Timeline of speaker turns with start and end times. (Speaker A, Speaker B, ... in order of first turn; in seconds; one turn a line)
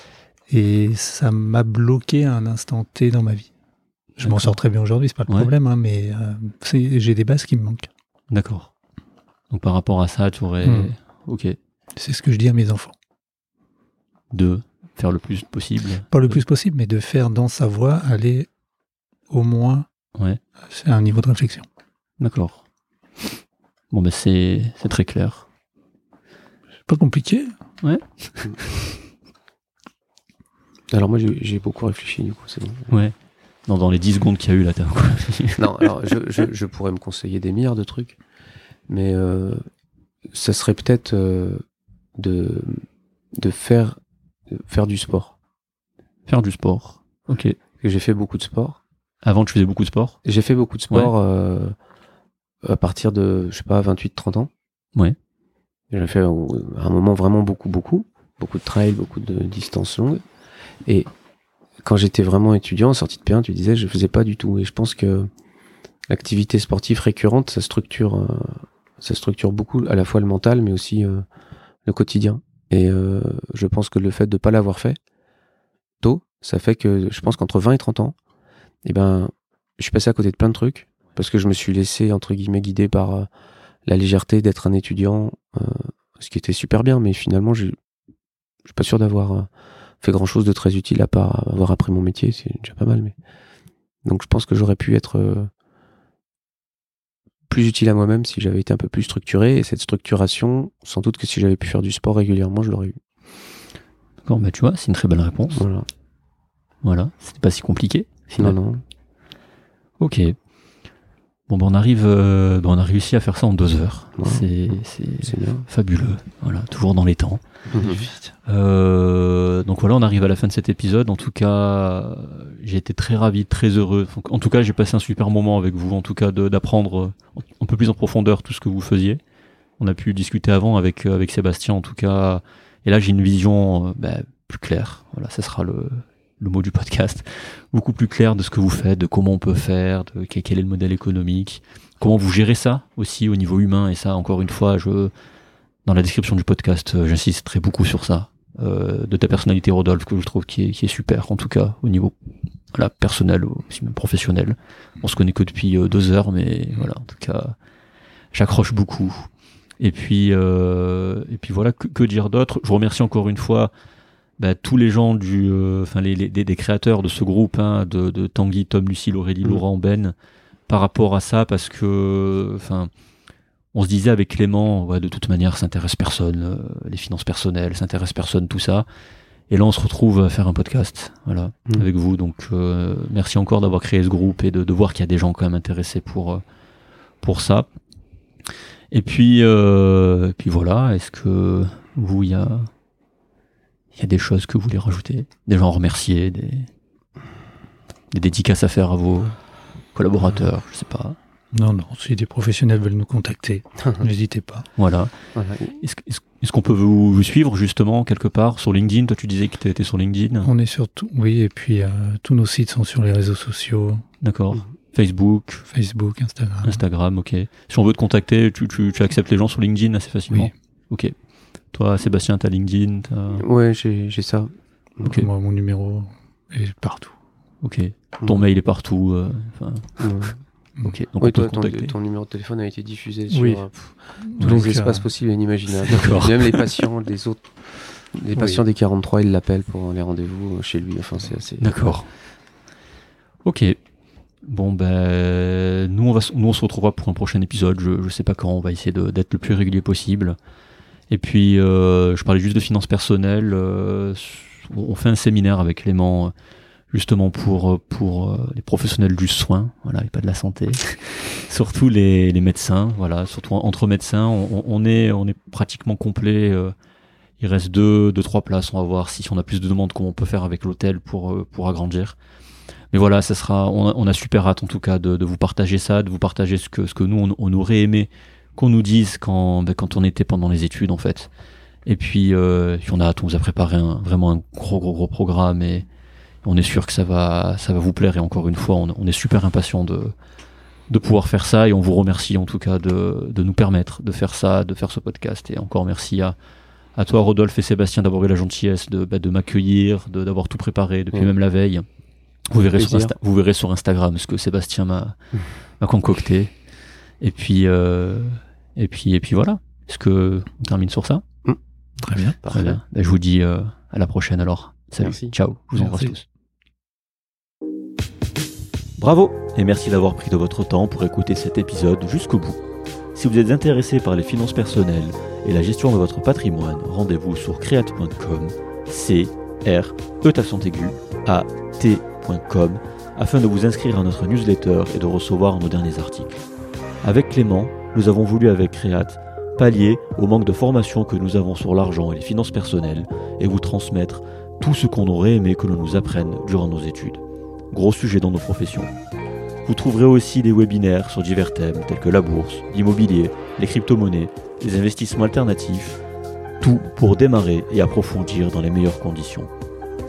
Speaker A: 0.5-3.5
Speaker A: 4.2-7.9
Speaker B: 4.2-4.5
Speaker B: 8.3-8.7
Speaker B: 9.5-11.6
Speaker A: 10.6-10.9
Speaker A: 11.9-12.9
Speaker B: 14.3-16.4
Speaker A: 16.1-18.5
Speaker A: 19.3-19.9
Speaker B: 20.1-20.4
Speaker A: 20.7-21.6
Speaker B: 22.2-22.6
Speaker B: 23.9-25.5
Speaker A: 26.9-27.5
Speaker B: 27.8-28.7
Speaker C: 30.9-32.9
Speaker B: 33.7-35.8
Speaker C: 35.6-38.2
Speaker C: 38.9-39.6
Speaker C: 40.3-41.6
Speaker C: 42.2-42.8
Speaker C: 43.4-45.4
Speaker B: 46.3-47.6
Speaker C: 47.8-48.8
Speaker B: 49.2-50.2
Speaker C: 50.2-51.8
Speaker C: 52.6-54.5
Speaker C: 55.9-60.2
Speaker C: 61.8-65.3
Speaker C: 66.1-71.2
Speaker C: 71.8-75.0
Speaker C: 76.0-78.2
Speaker C: 78.8-83.3
Speaker C: 83.8-87.8
Speaker C: 88.6-89.5
Speaker C: 90.0-93.1
Speaker C: 94.0-95.5
Speaker C: 97.5-103.0
Speaker B: 104.2-105.6
Speaker C: 105.5-105.9
Speaker B: 106.8-108.5
Speaker C: 108.3-108.8
Speaker B: 110.0-110.3
Speaker B: 111.5-117.4
Speaker C: 114.2-114.5
Speaker C: 115.2-115.7
Speaker C: 117.7-118.0
Speaker A: 117.8-118.3
Speaker B: 118.5-129.2
Speaker B: 129.8-145.1
Speaker B: 145.8-152.1
Speaker B: 152.7-157.5
Speaker B: 158.3-159.3
Speaker B: 159.8-163.7
Speaker B: 164.4-170.1
Speaker B: 170.7-172.9
Speaker B: 173.7-178.8
Speaker B: 179.5-186.4
Speaker B: 187.2-187.7
Speaker B: 188.9-192.7
Speaker B: 193.9-196.7
Speaker B: 198.1-199.3
Speaker B: 199.9-201.2
Speaker A: 201.5-204.7
Speaker B: 204.8-205.1
Speaker C: 205.3-205.8
Speaker B: 205.8-210.5
Speaker A: 210.4-214.0
Speaker B: 214.2-215.6
Speaker A: 215.7-216.8
Speaker B: 216.6-221.1
Speaker B: 221.7-223.4
Speaker C: 223.3-225.0
Speaker B: 225.0-225.3
Speaker A: 225.0-227.1
Speaker B: 227.6-230.1
Speaker C: 230.0-230.3
Speaker B: 230.8-231.9
Speaker C: 231.2-237.5
Speaker A: 233.3-233.6
Speaker A: 234.2-235.1
Speaker B: 235.8-236.8
Speaker C: 238.1-241.9
Speaker B: 241.6-242.1
Speaker B: 243.4-243.8
Speaker B: 244.4-250.4
Speaker B: 251.1-256.3
Speaker B: 256.9-266.7
Speaker B: 267.4-272.1
Speaker B: 272.9-281.3
Speaker B: 281.9-285.9
Speaker B: 286.4-290.1
Speaker B: 290.9-296.4
Speaker B: 296.9-301.9
Speaker B: 302.5-305.1
Speaker C: 302.8-303.2
Speaker B: 305.8-306.5
Speaker B: 307.2-311.2
Speaker A: 312.0-312.4
Speaker C: 312.4-312.8
Speaker B: 312.5-316.2
Speaker C: 315.0-315.3
Speaker A: 315.8-316.1
Speaker B: 319.0-322.6
Speaker B: 323.1-336.4
Speaker B: 337.0-348.9
Speaker B: 349.6-356.0
Speaker B: 356.6-359.5